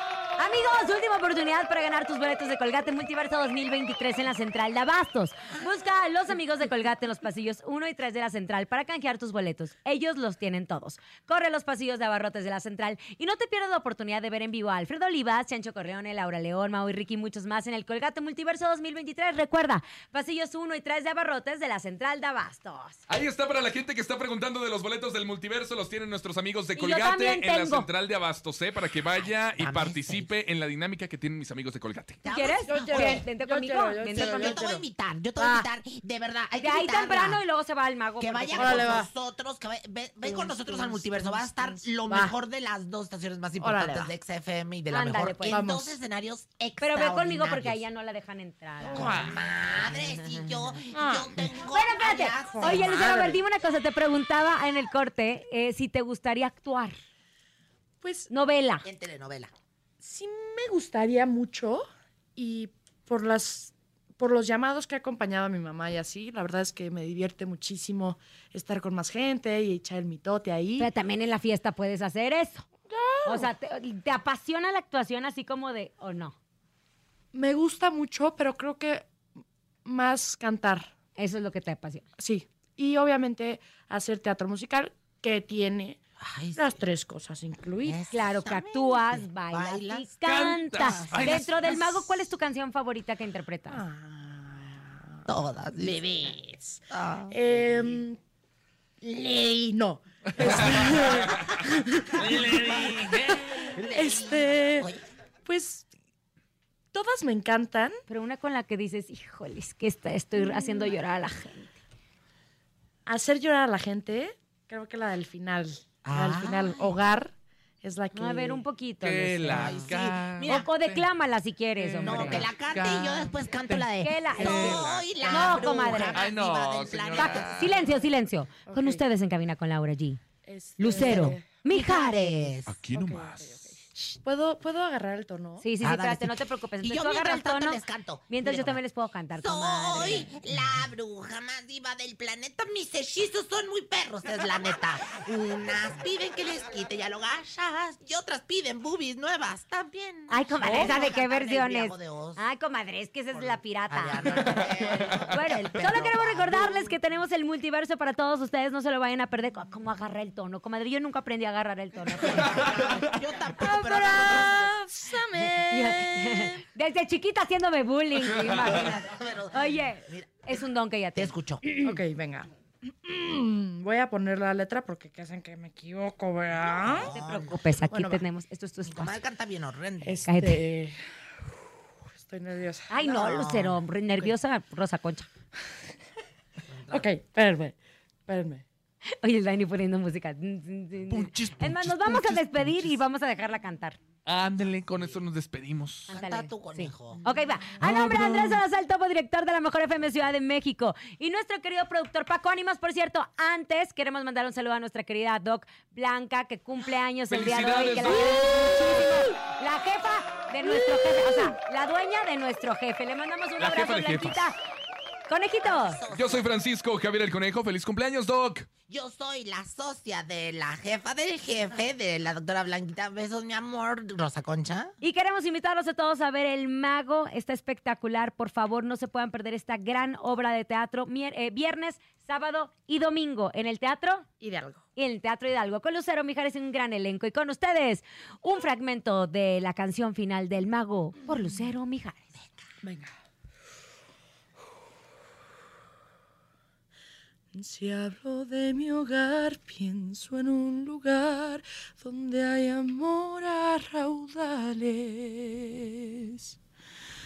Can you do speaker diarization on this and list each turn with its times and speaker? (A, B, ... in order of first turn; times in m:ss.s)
0:00.4-0:23.0 A
0:23.1-0:32.2 B
0:26.8-0:27.9 A
0:29.1-0:30.3 C
0:32.2-0:33.3 C
0:32.3-0:34.7 A
0:32.6-0:34.8 D
0:34.1-0:37.4 C
0:35.4-0:35.6 A
0:36.6-0:39.0 A
0:38.2-0:47.8 C
0:38.6-0:39.1 D
0:40.2-0:42.4 D
0:43.6-0:44.1 D
0:44.9-0:45.6 A
0:45.5-0:45.9 D
0:46.8-0:49.3 A
0:48.8-0:49.4 D
0:48.9-0:53.3 C
0:50.2-0:50.5 A
0:50.9-0:51.5 D
0:51.7-0:57.0 A
0:52.3-0:53.4 D
0:58.0-0:58.3 D
0:58.3-0:58.9 A
0:58.8-0:59.5 C
1:00.0-1:10.9 D
1:10.8-1:12.7 A
1:12.9-1:13.5 D
1:13.2-1:16.4 A
1:17.3-1:19.1 D
1:19.8-1:20.9 D
1:21.2-1:22.0 A
1:22.2-1:26.0 D
1:26.2-1:26.8 C
1:26.6-1:28.0 D
1:27.8-1:30.1 C
1:28.1-1:33.8 A
1:30.2-1:31.9 B
1:30.6-1:31.4 C
1:33.7-1:38.2 D
1:35.3-1:36.3 C
1:36.9-1:37.4 C
1:39.0-1:42.7 D
1:40.4-1:41.5 B
1:40.4-1:41.5 C
1:42.2-1:43.5 B
1:42.2-1:45.0 C
1:43.4-1:44.9 D
1:45.4-1:45.9 D
1:46.9-1:48.0 D
1:48.1-1:51.8 A
1:50.4-1:50.9 D
1:53.1-1:58.6 D
1:56.0-1:56.9 C
1:58.1-2:02.5 A
1:59.0-2:01.1 B
1:59.5-2:00.7 C
2:01.8-2:07.8 B
2:02.0-2:07.8 C
2:04.0-2:06.3 A
2:07.2-2:10.2 A
2:08.7-2:09.0 D
2:10.4-2:11.6 D
2:10.8-2:12.5 A
2:11.6-2:12.8 C
2:12.7-2:13.6 B
2:12.9-2:15.6 D
2:15.6-2:20.3 A
2:15.8-2:18.8 C
2:19.4-2:32.4 C
2:30.3-2:43.0 A
2:30.6-2:30.9 D
2:33.3-2:36.9 C
2:34.6-2:35.2 B
2:42.2-2:44.7 C
2:42.7-2:42.9 B
2:43.5-2:46.6 D
2:45.4-2:52.0 A
2:48.4-2:50.4 C
2:51.2-2:51.6 C
2:51.8-2:57.1 D
2:56.6-2:57.6 C
2:56.9-2:59.2 A
2:57.9-2:58.2 D
2:58.8-3:00.3 C
3:00.0-3:01.0 D
3:00.3-3:00.6 A
3:02.1-3:03.3 D
3:02.9-3:05.3 A
3:03.0-3:03.8 C
3:06.7-3:07.0 C
3:06.9-3:07.8 D
3:08.3-3:08.6 D
3:09.2-3:14.0 A
3:11.1-3:12.9 B
3:14.3-3:16.1 B
3:16.1-3:34.6 A
3:16.1-3:17.2 C
3:17.2-3:17.5 D
3:17.8-3:18.6 B
3:27.3-3:28.6 B
3:33.6-3:34.5 B
3:35.3-3:36.0 A
3:35.6-3:36.5 C
3:36.1-3:38.7 B
3:38.9-3:44.9 C
3:45.0-3:54.3 A
3:54.4-3:54.8 D
3:55.0-4:02.4 A
4:02.8-4:03.1 D
4:07.5-4:16.6 D